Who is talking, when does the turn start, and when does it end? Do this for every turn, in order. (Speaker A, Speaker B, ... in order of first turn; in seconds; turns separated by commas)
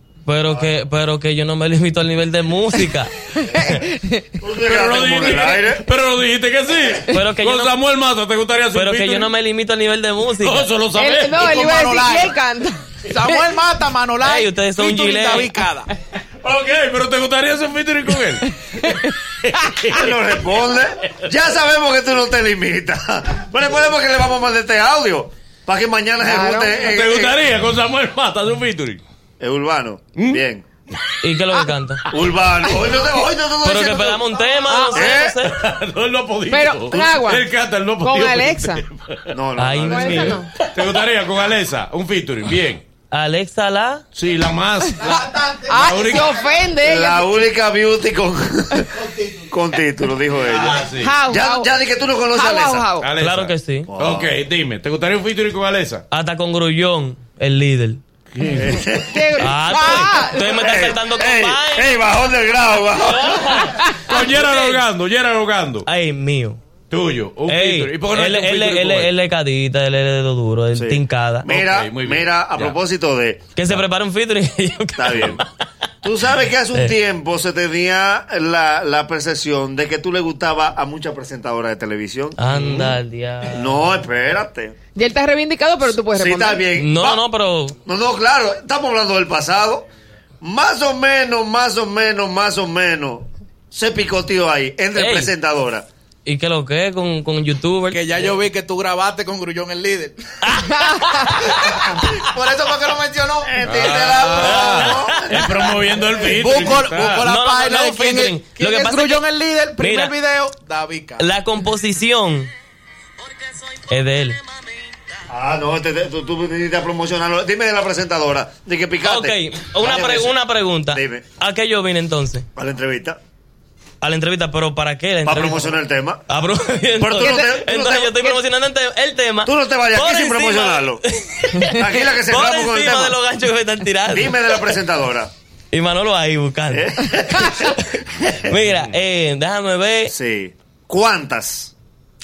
Speaker A: 0.2-3.7, Speaker B: 3.4-4.3, Speaker C: 4.4-5.8, Speaker D: 4.6-9.3, Speaker A: 7.1-7.7, Speaker A: 8.7-10.7, Speaker D: 10.4-11.6, Speaker B: 10.9-13.4, Speaker E: 11.3-12.3, Speaker E: 13.1-15.9, Speaker A: 14.2-15.5, Speaker D: 16.4-20.1, Speaker B: 18.8-19.1, Speaker C: 19.9-27.4, Speaker B: 26.2-26.9, Speaker D: 26.8-29.0, Speaker C: 29.4-30.6, Speaker D: 30.1-30.4, Speaker A: 31.2-32.0, Speaker C: 32.1-35.3, Speaker A: 33.6-35.6, Speaker B: 34.7-35.2, Speaker D: 35.4-39.4, Speaker B: 36.5-38.8, Speaker C: 39.3-40.4, Speaker A: 39.6-40.4, Speaker B: 39.9-40.5, Speaker D: 40.5-42.8, Speaker A: 43.1-44.0, Speaker D: 44.1-45.2, Speaker B: 45.0-47.3, Speaker E: 45.0-46.4, Speaker D: 45.8-46.3, Speaker C: 46.8-52.9, Speaker E: 49.0-49.3, Speaker D: 50.4-51.2, Speaker B: 51.0-51.7, Speaker B: 52.3-53.1, Speaker D: 53.0-56.0, Speaker A: 53.2-53.9, Speaker C: 53.9-54.3, Speaker A: 56.1-58.0, Speaker D: 58.3-59.0, Speaker C: 58.5-59.5, Speaker B: 59.0-60.8, Speaker A: 59.4-62.0, Speaker C: 60.4-63.7, Speaker A: 63.0-64.8, Speaker D: 64.0-65.9, Speaker A: 65.8-66.6, Speaker D: 66.9-69.1, Speaker A: 67.5-71.5, Speaker C: 70.7-73.5, Speaker D: 71.5-72.8, Speaker A: 73.5-75.5, Speaker C: 75.0-75.4, Speaker C: 76.0-82.4, Speaker A: 82.4-83.8, Speaker D: 82.4-82.9, Speaker C: 83.5-84.8, Speaker B: 84.9-86.6, Speaker C: 86.1-87.2, Speaker A: 86.7-87.8, Speaker C: 87.8-89.8, Speaker C: 90.4-95.9, Speaker A: 94.9-95.3, Speaker A: 96.2-98.0, Speaker E: 97.9-100.2, Speaker A: 100.4-101.5, Speaker B: 100.7-101.3, Speaker E: 101.4-104.3, Speaker C: 103.4-105.6, Speaker D: 103.6-107.3, Speaker A: 104.4-105.6, Speaker E: 106.2-111.3, Speaker A: 107.2-109.2, Speaker A: 109.8-110.1, Speaker A: 111.2-112.5, Speaker A: 113.8-114.4, Speaker C: 115.3-120.3, Speaker A: 119.0-122.5, Speaker C: 120.9-121.2, Speaker C: 122.5-123.2, Speaker A: 124.0-134.4, Speaker C: 125.2-126.2, Speaker C: 127.0-128.4, Speaker C: 129.4-131.0, Speaker C: 131.6-133.2, Speaker C: 134.1-135.3, Speaker A: 135.7-140.1, Speaker C: 136.7-137.7, Speaker D: 138.6-138.9, Speaker C: 140.1-141.7